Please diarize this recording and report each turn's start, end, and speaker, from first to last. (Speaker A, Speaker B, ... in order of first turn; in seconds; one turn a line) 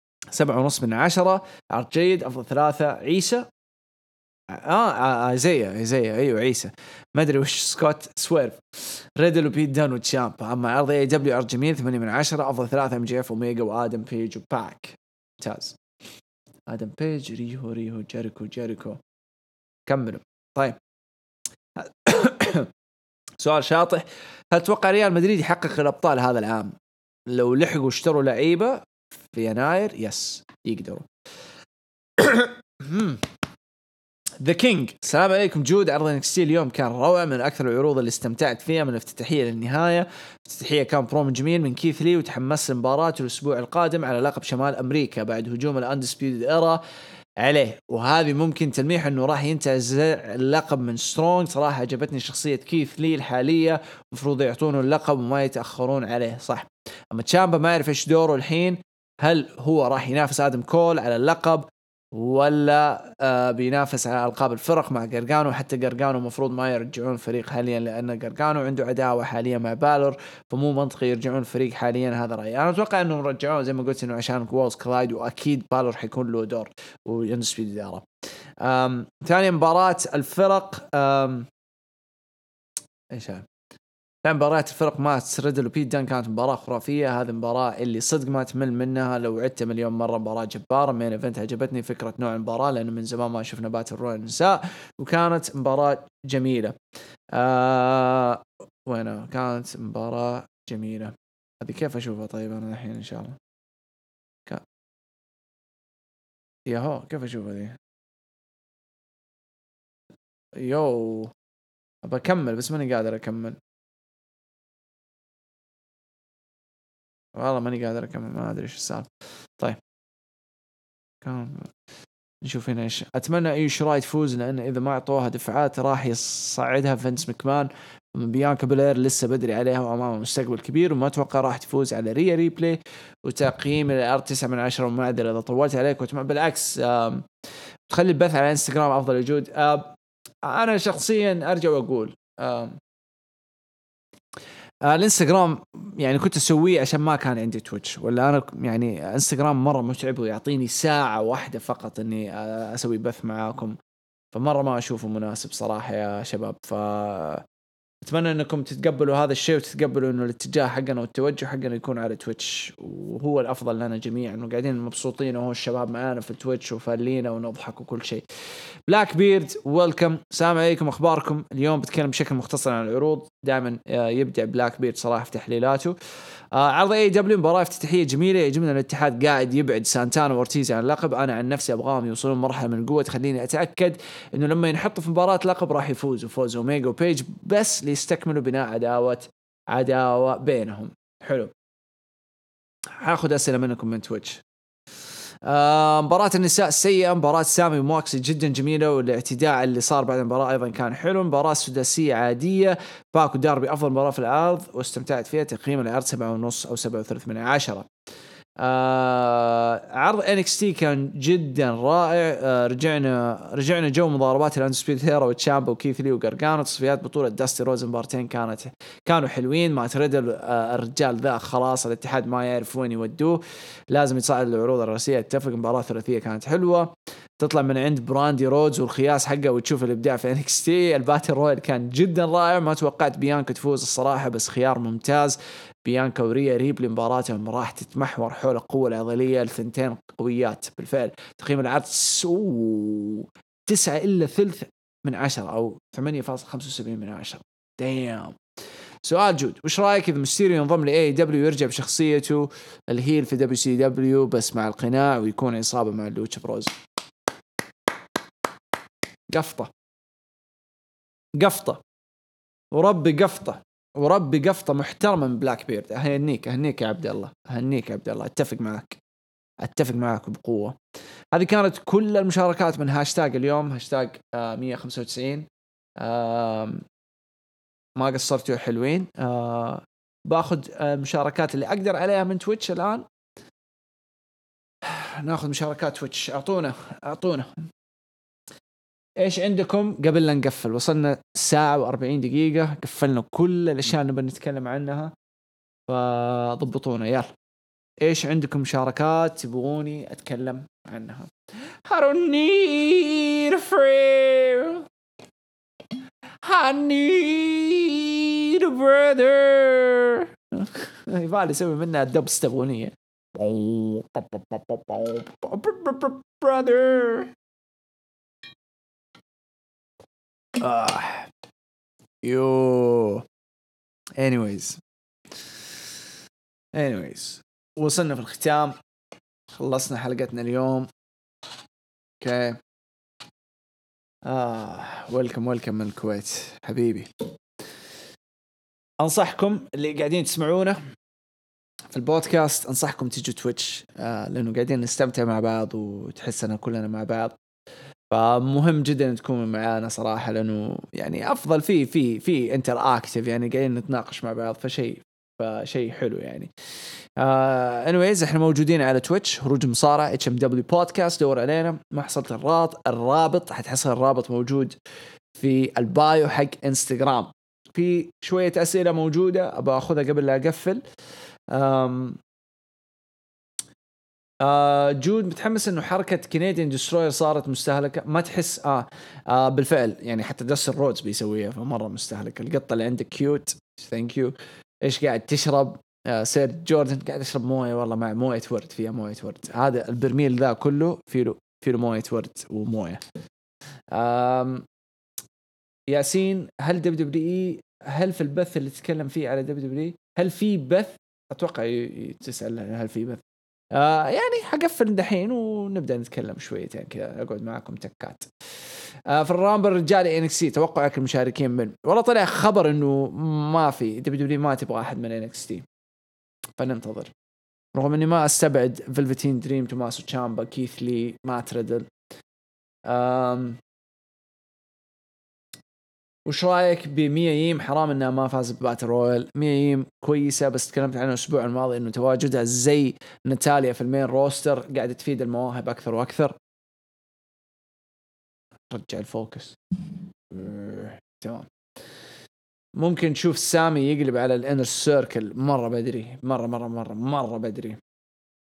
Speaker A: 0.3-3.5
Speaker A: 4.5-15.8
Speaker A: 16.7-19.0
Speaker A: 19.9-20.8
Speaker A: 21.8-22.7
Speaker A: 23.4-26.8
Speaker A: 27.3-31.1
Speaker A: 32.2-33.2
Speaker A: 34.4-46.8
Speaker A: 47.4-78.1
Speaker A: 78.6-81.5
Speaker A: 83.1-83.5
Speaker A: 84.2-96.8
Speaker A: 97.3-103.4
Speaker A: 106.7-107.8
Speaker A: 110.6-111.3
Speaker A: 112.0-113.6
Speaker A: 117.4-119.1
Speaker A: 121.2-121.7
Speaker A: 122.4-137.3
Speaker A: 137.9-139.9
Speaker A: 140.4-142.8
Speaker A: 144.8-153.8
Speaker A: 154.3-157.4
Speaker A: 158.0-168.2
Speaker A: 168.9-175.9
Speaker A: 176.5-191.5
Speaker A: 193.0-194.4
Speaker A: 195.4-207.9
Speaker A: 208.6-248.4
Speaker A: 249.0-256.8
Speaker A: 259.3-259.7
Speaker A: 261.4-261.8
Speaker A: 262.7-269.0
Speaker A: 269.6-270.8
Speaker A: 271.3-275.5
Speaker A: 276.0-276.8
Speaker A: 278.0-283.0
Speaker A: 284.8-287.7
Speaker A: 289.2-295.1
Speaker A: 295.9-297.3
Speaker A: 298.0-301.3
Speaker A: 301.9-304.9
Speaker A: 306.4-317.3
Speaker A: 320.6-321.3
Speaker A: 322.2-323.2
Speaker A: 324.2-324.8
Speaker A: 326.8-328.8
Speaker A: 329.5-330.9
Speaker A: 332.2-332.6
Speaker A: 334.3-337.1
Speaker A: 339.0-340.8
Speaker A: 341.9-347.3
Speaker A: 348.1-356.5
Speaker A: 357.2-364.8
Speaker A: 365.4-370.8
Speaker A: 371.5-372.2
Speaker A: 374.4-393.0
Speaker A: 393.9-394.6
Speaker A: 395.9-403.2
Speaker A: 403.7-408.3
Speaker A: 409.1-415.6
Speaker A: 416.6-417.1
Speaker A: 417.7-421.9
Speaker A: 422.9-423.6
Speaker A: 426.3-436.4
Speaker A: 438.7-441.5
Speaker A: 442.8-447.8